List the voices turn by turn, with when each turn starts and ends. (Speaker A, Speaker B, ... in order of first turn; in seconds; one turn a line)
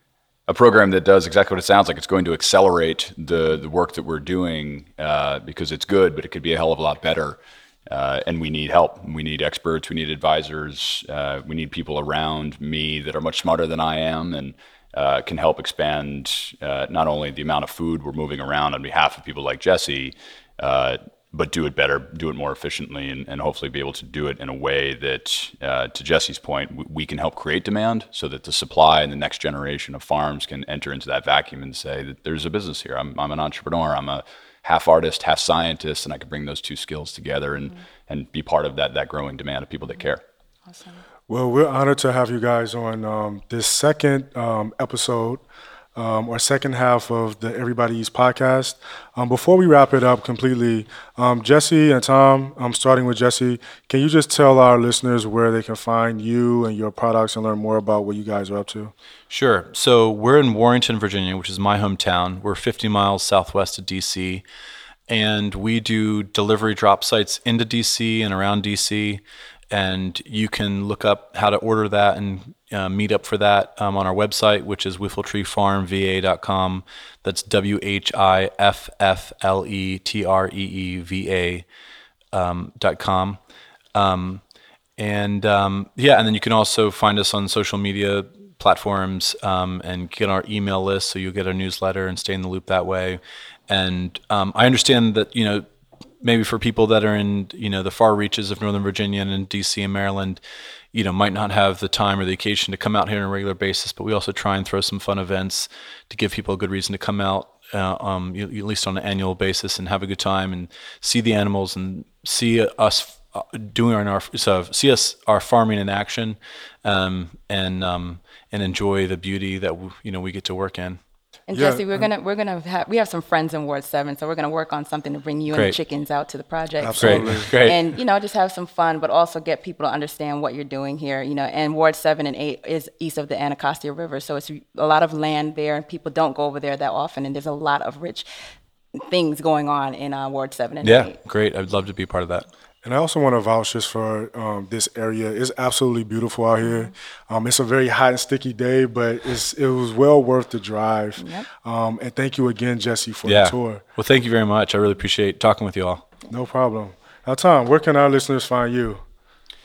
Speaker A: 0.5-40.2
Speaker B: 40.7-41.0
Speaker C: 41.3-45.4
Speaker C: 45.9-58.9
Speaker D: 59.3-64.4
Speaker D: 65.1-81.6
Speaker D: 82.3-83.4
Speaker D: 83.9-84.4
Speaker D: 85.0-95.7
Speaker D: 96.2-100.4
Speaker D: 100.9-121.0
Speaker B: 121.5-138.2
Speaker C: 121.5-122.1
Speaker D: 125.5-125.8
Speaker C: 126.8-127.5
Speaker D: 127.0-127.8
Speaker B: 138.9-141.2
Speaker D: 140.8-142.5
Speaker C: 142.8-153.8
Speaker B: 151.2-151.4
Speaker D: 153.2-156.0
Speaker C: 156.3-159.0